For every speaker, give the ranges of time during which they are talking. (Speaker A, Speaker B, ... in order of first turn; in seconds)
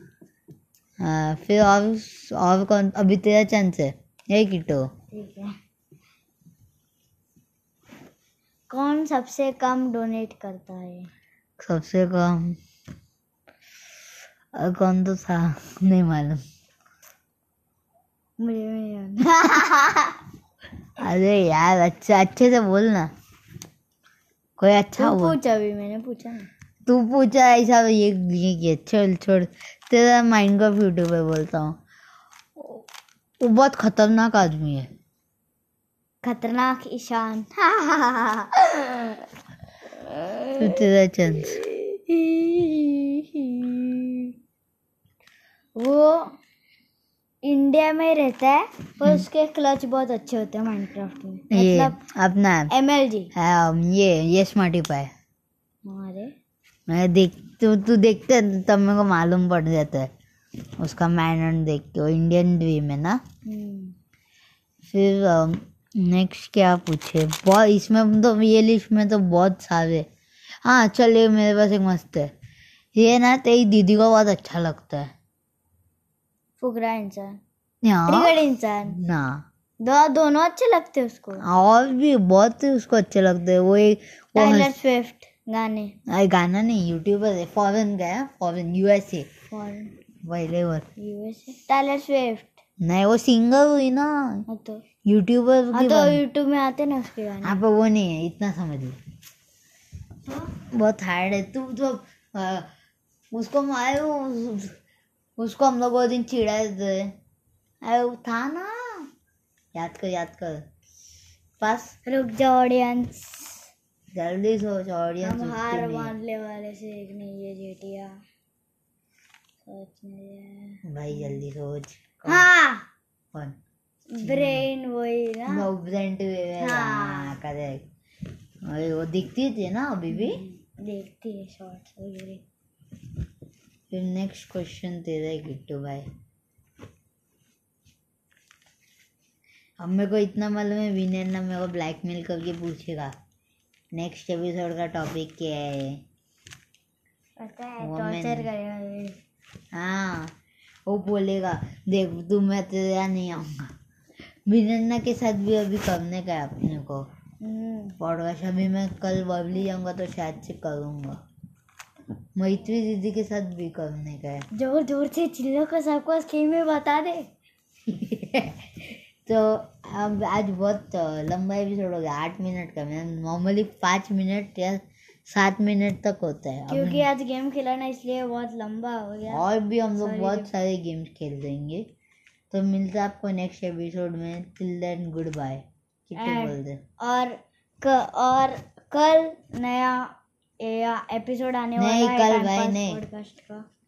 Speaker A: 1.0-4.9, 11.6-12.6, 14.6-16.4, 21.0-23.1, 24.6-25.4, 26.9-31.8, 32.6-32.8, 33.4-34.9, 40.6-41.6, 49.0-49.2, 51.5-52.7, 53.3-55.1, 56.9-60.1, 60.8-63.2, 64.8-70.1, 70.6-72.3, 72.9-75.1, 77.8-79.4, 81.4-84.8, 86.1-89.3, 90.2-90.8, 92.8-94.4, 95.0-96.2, 97.4-99.0, 100.5-102.7, 103.3-104.8, 105.4-107.1, 107.8-109.0, 109.7-110.6, 111.6-112.0, 114.1-116.1, 120.8-122.5, 123.3-123.6, 124.2-124.7, 125.5-127.8, 128.6-130.4, 133.9-136.1, 139.8-143.1, 143.9-146.0, 147.8-148.4, 149.7-150.3, 150.9-153.7, 154.5-157.0, 158.0-161.2, 162.4-164.4, 167.8-177.1, 179.3-181.9, 182.5-186.8, 191.8-193.0
Speaker B: 5.1-5.5, 8.7-11.1, 18.4-20.2, 25.0-26.5, 36.2-39.2, 40.0-40.9, 41.4-44.3, 45.8-46.3, 47.4-52.0, 52.7-53.3, 55.8-56.3, 63.4-64.0, 76.6-77.4, 78.1-79.0, 79.8-81.4, 84.3-86.0, 89.5-89.9, 91.0-92.6, 94.5-94.8, 95.7-97.6, 112.0-113.7, 115.2-118.2, 119.6-120.8, 122.2-122.9, 124.1-125.7, 126.6-127.4, 130.1-132.4, 147.4-149.2, 157.4-158.0, 164.5-167.3, 176.7-179.4, 180.0-180.5, 186.2-193.7